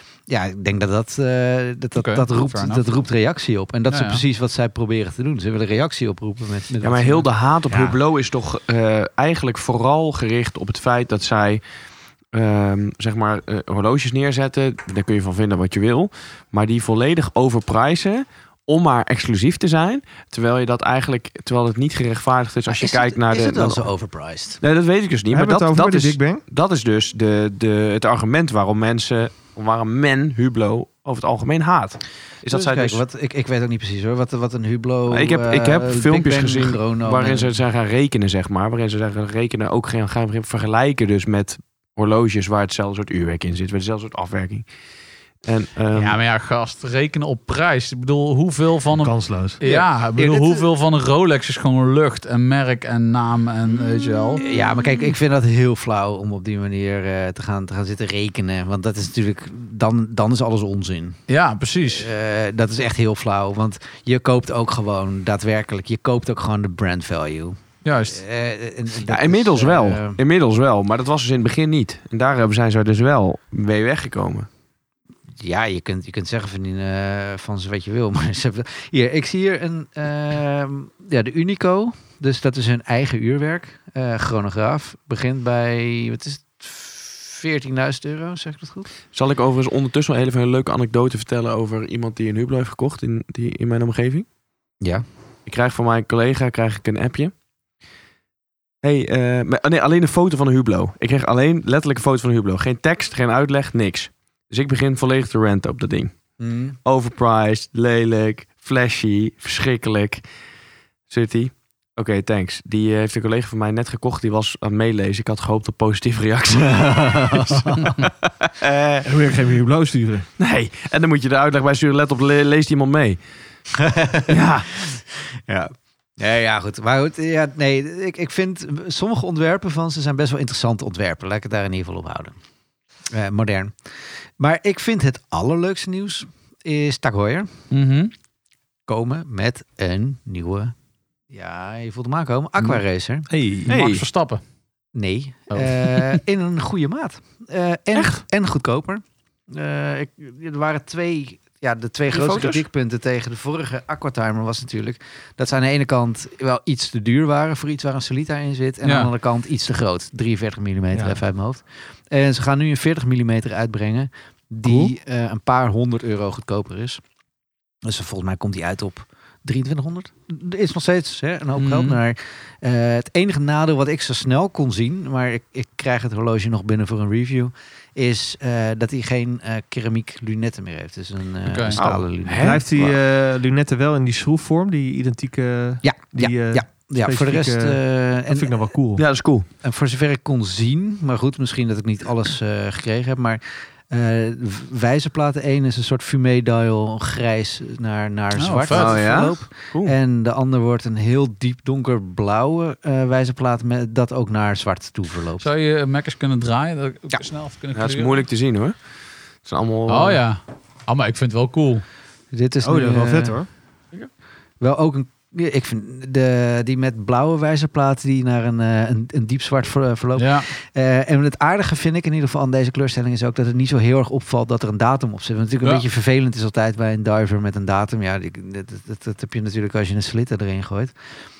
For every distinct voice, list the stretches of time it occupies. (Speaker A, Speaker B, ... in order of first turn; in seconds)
Speaker A: 0.3-7.3, 22.7-24.6, 32.5-37.5, 49.6-50.6, 54.4-61.2, 61.9-70.2, 75.4-88.9, 106.4-106.8, 116.6-118.0, 123.8-124.3, 124.9-132.4, 133.1-133.7, 134.4-137.5, 138.9-140.7, 141.3-143.3, 144.9-167.0, 167.8-182.6, 185.8-188.7, 189.6-205.5, 212.3-213.4, 214.6-230.9
Speaker B: 1.9-2.8, 3.9-4.2, 45.9-54.4, 61.3-62.1, 67.8-68.2, 137.7-138.1, 143.7-144.4, 145.5-146.2, 158.8-159.1, 171.6-172.0, 181.4-181.8, 198.4-199.1, 205.4-208.2, 209.9-211.8, 220.2-220.5
Speaker C: 6.8-11.6, 12.3-23.9, 24.6-33.0, 35.1-44.7, 45.4-46.1, 69.0-74.5, 89.1-94.3, 95.5-97.3, 98.8-106.2, 106.8-110.2, 111.1-119.0, 120.4-123.2, 124.3-124.8, 143.7-144.0, 147.9-148.2, 152.1-152.6, 181.7-182.9, 188.9-189.4, 198.7-199.9, 207.7-208.8, 209.4-210.2
Speaker D: 7.7-8.0, 25.3-26.4, 49.0-49.6, 119.0-120.3, 143.3-143.7, 160.9-161.2, 164.6-164.9, 182.4-189.0, 212.6-213.5